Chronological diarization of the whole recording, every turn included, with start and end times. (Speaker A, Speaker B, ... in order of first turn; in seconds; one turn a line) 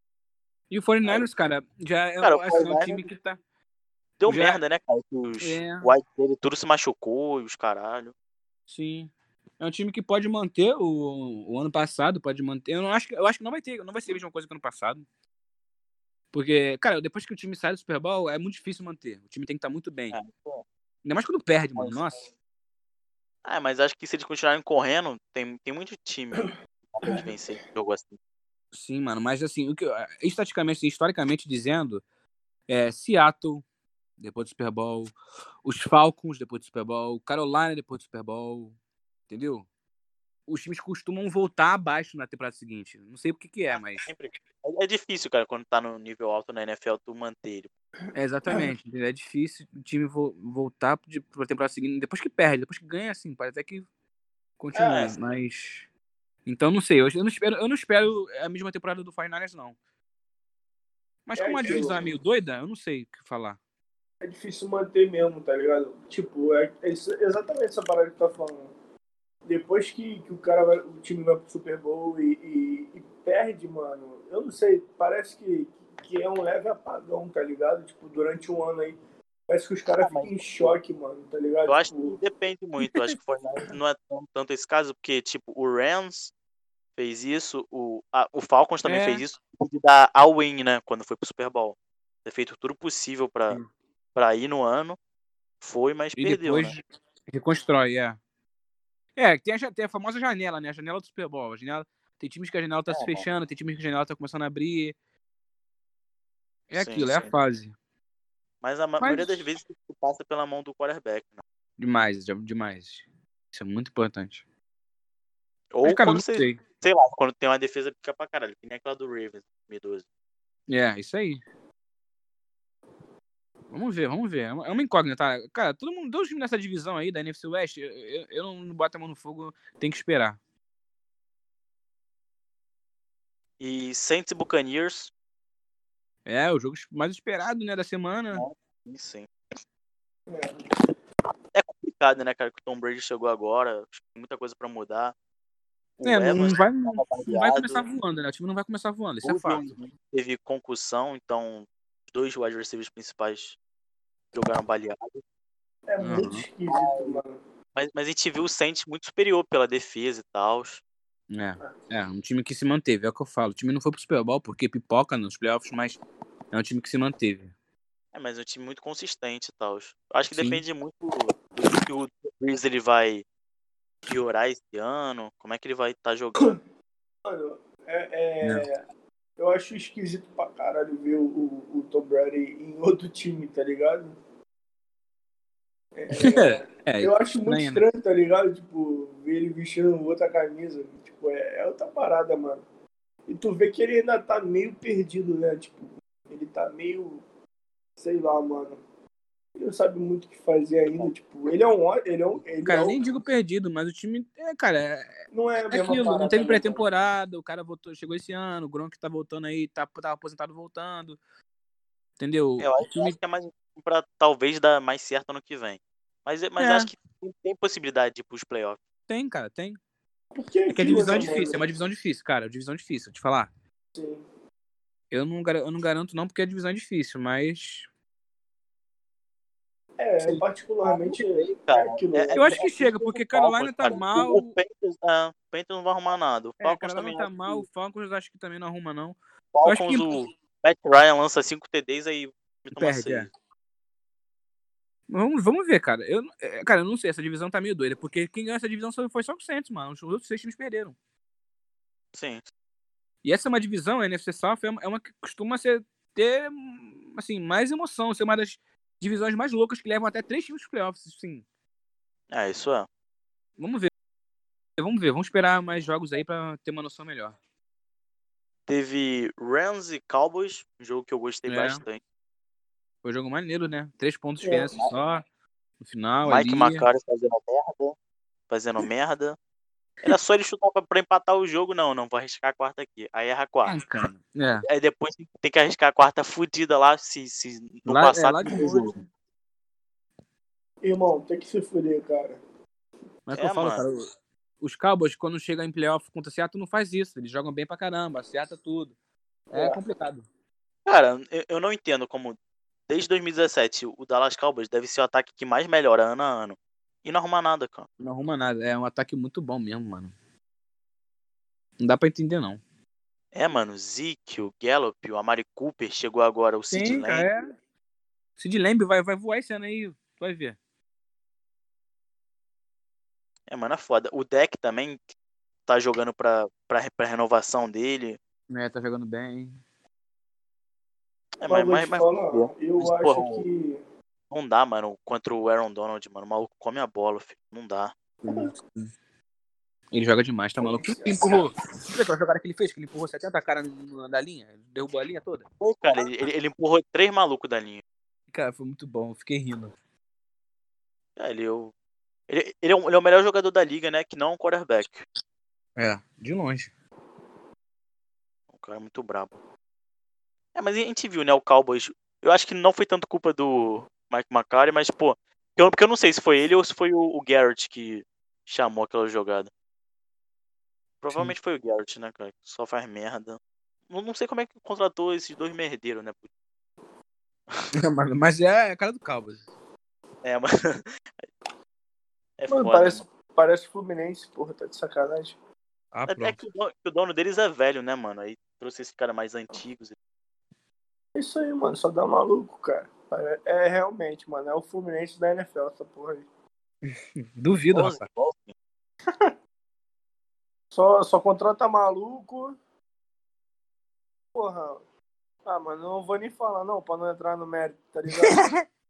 Speaker A: 0.7-3.4
Speaker B: 2.2-3.1
Speaker B: 4.2-8.1
Speaker A: 4.3-4.6
Speaker A: 5.4-5.9
Speaker A: 8.7-15.1
Speaker A: 16.3-20.2
Speaker B: 20.1-20.6
Speaker A: 21.1-22.3
Speaker B: 21.8-22.0
Speaker B: 23.4-28.2
Speaker A: 28.7-32.0
Speaker A: 32.7-33.6
Speaker A: 34.2-38.8
Speaker A: 39.3-39.7
Speaker A: 40.5-44.1
Speaker B: 44.0-47.7
Speaker A: 48.1-53.9
Speaker A: 54.6-55.9
Speaker B: 54.8-55.1
Speaker A: 56.5-59.8
Speaker A: 61.3-63.6
Speaker C: 61.4-62.0
Speaker C: 64.2-68.7
Speaker C: 69.5-82.2
Speaker B: 80.0-80.8
Speaker B: 81.7-86.3
Speaker B: 87.0-93.6
Speaker A: 88.8-89.2
Speaker B: 94.2-95.0
Speaker B: 95.6-96.8
Speaker A: 96.2-98.2
Speaker A: 99.2-105.0
Speaker B: 102.9-103.3
Speaker A: 106.7-107.8
Speaker B: 106.8-107.3
Speaker B: 108.6-111.4
Speaker A: 109.0-109.5
Speaker A: 111.8-114.4
Speaker B: 115.7-120.0
Speaker A: 115.8-116.6
Speaker A: 120.7-121.4
Speaker A: 123.7-130.4
Speaker B: 133.6-135.1
Speaker A: 136.3-138.4
Speaker B: 138.3-139.3
Speaker C: 140.3-140.7
Speaker B: 141.5-145.1
Speaker B: 146.0-147.8
Speaker A: 146.0-149.7
Speaker B: 149.2-153.6
Speaker B: 154.3-155.2
Speaker C: 155.9-157.4
Speaker A: 156.0-156.4
Speaker B: 156.7-157.2
Speaker B: 157.8-160.8
Speaker A: 161.3-166.0
Speaker A: 166.5-167.5
Speaker B: 168.1-173.2
Speaker A: 170.3-170.6
Speaker B: 174.1-176.6
Speaker C: 177.2-178.8
Speaker A: 178.4-178.7
Speaker C: 179.4-184.2
Speaker C: 185.9-192.6
Speaker A: 186.1-187.8
Speaker C: 193.3-197.2
Speaker C: 198.0-198.8
Speaker C: 199.6-203.0
Speaker A: 202.7-211.2
Speaker C: 205.3-206.8
Speaker A: 212.2-213.2
Speaker B: 212.6-218.8
Speaker A: 216.6-216.9
Speaker A: 219.1-219.8
Speaker C: 220.3-221.6
Speaker A: 220.7-223.5
Speaker C: 223.9-224.2
Speaker A: 225.1-227.9
Speaker C: 230.0-232.9
Speaker B: 230.8-237.7
Speaker A: 232.3-234.6
Speaker A: 236.6-240.2
Speaker B: 239.5-243.3
Speaker A: 242.8-243.3
Speaker A: 245.1-251.0
Speaker B: 252.1-252.4
Speaker A: 253.2-261.4
Speaker B: 262.3-262.9
Speaker A: 263.6-263.9
Speaker A: 264.8-267.4
Speaker B: 268.7-272.0
Speaker A: 271.5-271.8
Speaker A: 273.0-275.2
Speaker C: 274.4-274.7
Speaker A: 275.8-276.9
Speaker B: 276.2-278.0
Speaker B: 278.5-279.4
Speaker B: 280.1-283.8
Speaker A: 283.7-284.7
Speaker B: 284.6-288.9
Speaker A: 287.9-289.0
Speaker C: 290.8-292.4
Speaker A: 293.3-294.1
Speaker B: 293.3-293.8
Speaker A: 294.6-298.9
Speaker C: 299.5-299.8
Speaker A: 299.5-300.3
Speaker B: 300.9-307.9
Speaker A: 308.0-310.1
Speaker A: 311.8-312.6
Speaker B: 313.3-317.3
Speaker A: 316.7-317.5
Speaker A: 318.4-320.6
Speaker B: 323.5-325.0
Speaker B: 325.7-328.2
Speaker A: 328.5-329.6
Speaker B: 331.4-333.4
Speaker C: 331.5-333.8
Speaker B: 334.3-337.9
Speaker A: 338.2-338.9
Speaker A: 339.9-345.4
Speaker C: 340.6-341.3
Speaker B: 345.6-347.8
Speaker A: 348.3-349.7
Speaker B: 351.2-351.7
Speaker B: 352.3-355.1
Speaker A: 355.8-356.7
Speaker B: 358.5-359.4
Speaker B: 360.6-369.5
Speaker B: 371.0-376.3
Speaker A: 377.8-379.5
Speaker B: 380.2-380.9
Speaker B: 382.4-383.0
Speaker C: 382.5-385.4
Speaker A: 385.9-386.4
Speaker B: 386.1-389.9
Speaker C: 391.1-396.3
Speaker A: 396.9-398.1
Speaker B: 397.7-398.5
Speaker C: 400.7-402.6
Speaker C: 404.3-404.8
Speaker C: 405.5-408.5